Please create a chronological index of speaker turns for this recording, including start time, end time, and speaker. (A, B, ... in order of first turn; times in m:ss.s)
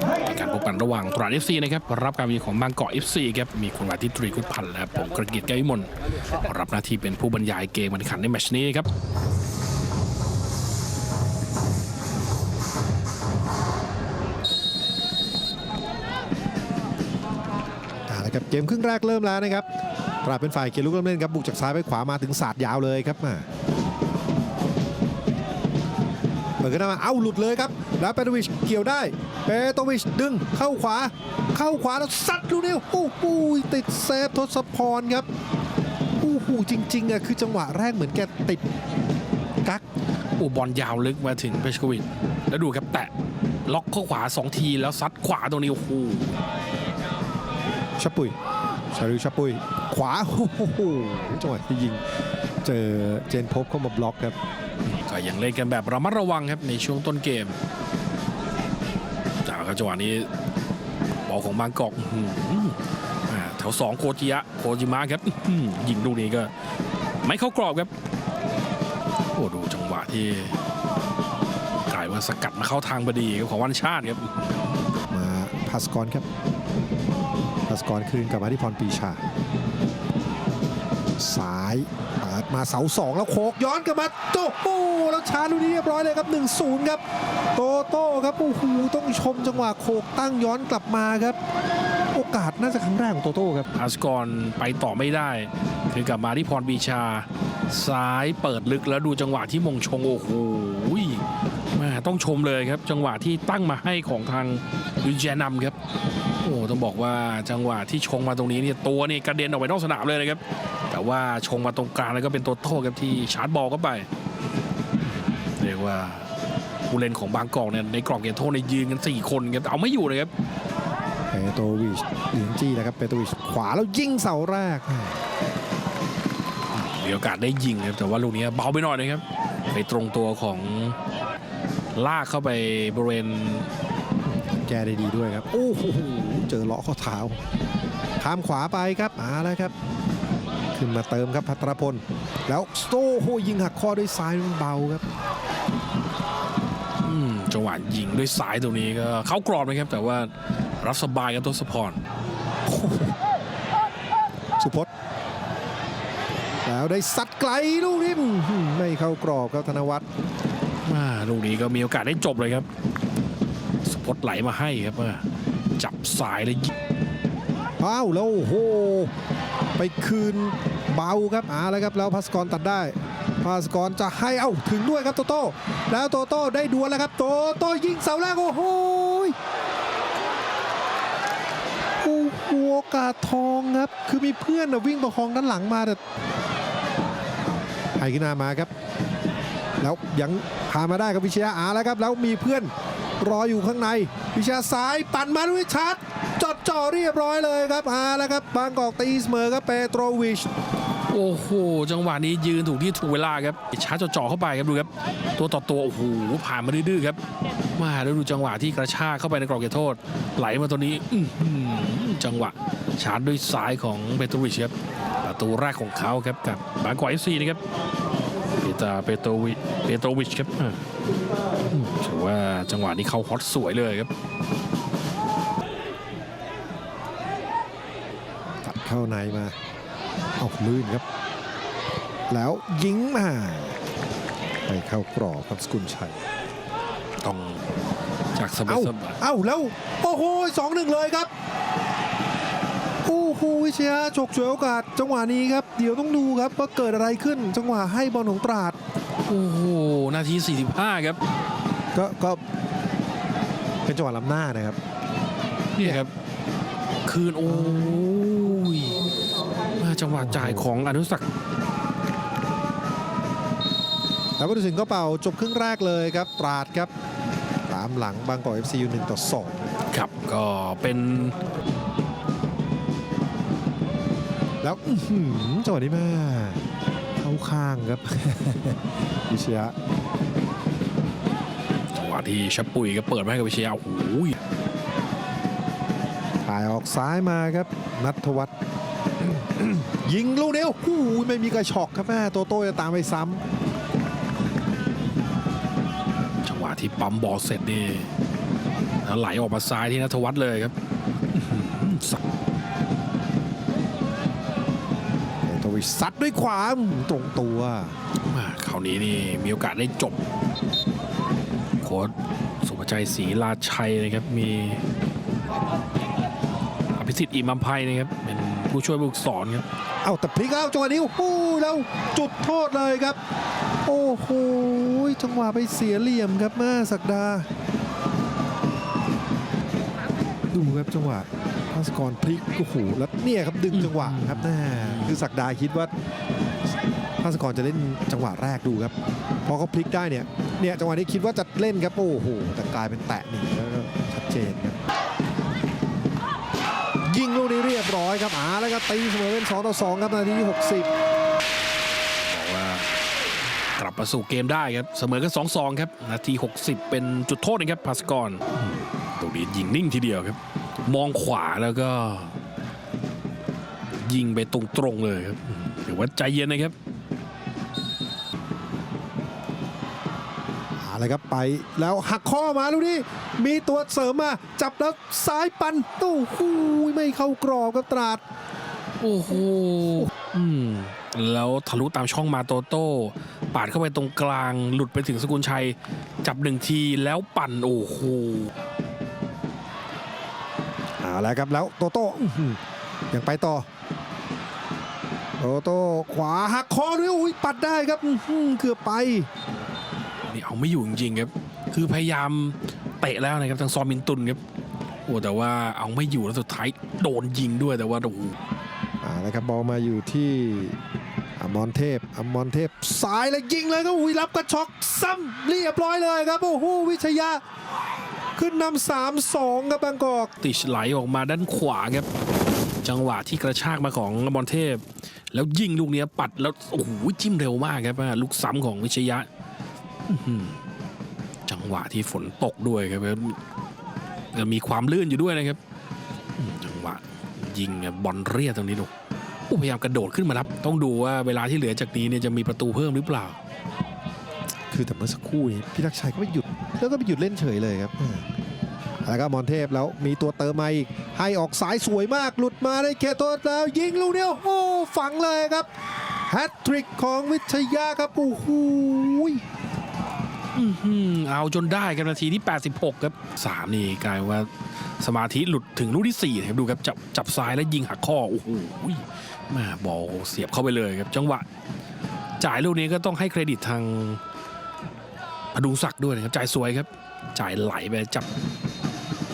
0:00.2-0:08.9 A
0:18.1-0:19.6 B
0:20.2-0:23.4 B
0:26.6-0:35.3 B
0:36.2-0:38.6 B
0:40.4-0:43.1 A
0:43.6-0:46.3 A
0:48.0-0:48.3 B
0:48.9-0:52.0 B
0:52.6-0:54.4 B
0:54.8-0:57.6 A
0:59.4-1:00.3 A
1:01.3-1:06.5 A
1:07.2-1:07.9 A
1:09.3-1:10.5 A
1:11.9-1:14.3 A
1:15.1-1:16.2 B
1:17.7-1:19.2 B
1:21.2-1:27.0 B
1:27.5-1:31.4 B
1:32.1-1:33.7 B
1:33.7-1:45.8 A
1:46.4-1:54.1 A
1:55.5-1:56.2 A
1:56.9-2:00.3 A
2:01.3-2:05.2 B
2:06.7-2:11.0 A
2:11.9-2:13.7 A
2:14.3-2:17.4 B
2:18.2-2:19.7 B
2:20.7-2:25.0 B
2:27.0-2:32.0 A
2:32.6-2:33.1 B
2:34.6-2:34.9 B
2:36.6-2:40.0 B
2:40.8-2:42.7 A
2:43.8-2:45.2 A
2:45.8-2:46.7 A
2:47.8-2:49.1 B
2:49.8-2:59.4 B
3:02.0-3:06.0 B
3:08.0-3:08.7 B
3:09.8-3:20.5 B
3:21.1-3:27.2 A
3:27.8-3:37.6 A
3:38.6-3:40.8 A
3:41.6-3:44.1 A
3:48.6-3:49.5 B
3:50.4-3:51.0 B
3:52.3-3:53.8 B
3:54.7-3:56.2 B
3:57.2-3:57.6 A
3:58.3-3:59.2 A
3:58.6-4:01.3 B
4:03.0-4:08.8 B
4:09.2-4:11.2 A
4:11.9-4:12.4 B
4:13.8-4:14.8 B
4:15.8-4:16.1 A
4:17.0-4:19.0 A
4:19.8-4:21.2 A
4:20.1-4:20.7 B
4:24.4-4:26.9 B
4:27.7-4:29.7 B
4:29.9-4:31.4 A
4:34.6-4:36.6 B
4:37.2-4:39.7 B
4:41.9-4:44.4 A
4:46.4-4:48.5 B
4:49.2-4:53.4 B
4:56.4-4:58.1 A
4:59.0-5:00.7 A
5:01.3-5:02.2 A
5:05.4-5:07.9 B
5:08.3-5:10.2 A
5:11.8-5:14.8 A
5:16.9-5:19.6 A
5:20.0-5:23.2 B
5:23.8-5:27.5 B
5:30.5-5:35.9 B
5:33.7-5:35.2 A
5:37.2-5:38.9 B
5:39.4-5:44.8 B
5:47.0-5:50.9 B
5:52.2-5:52.9 A
5:53.8-5:58.6 A
5:59.2-6:02.4 A
6:03.9-6:06.7 A
6:10.8-6:18.2 B
6:19.0-6:28.5 A
6:31.0-6:32.6 B
6:33.1-6:33.7 B
6:35.4-6:39.3 B
6:40.3-6:44.4 A
6:45.1-6:48.3 A
6:49.0-6:50.8 B
6:51.4-6:57.4 B
6:58.4-7:00.3 B
7:00.4-7:02.1 A
7:02.8-7:09.3 A
7:10.1-7:10.6 A
7:11.5-7:13.4 A
7:14.3-7:15.6 A
7:16.4-7:18.9 A
7:19.5-7:23.4 A
7:24.7-7:28.3 B
7:29.0-7:39.4 B
7:40.5-7:51.4 A
7:52.4-7:54.2 A
7:55.5-7:58.3 A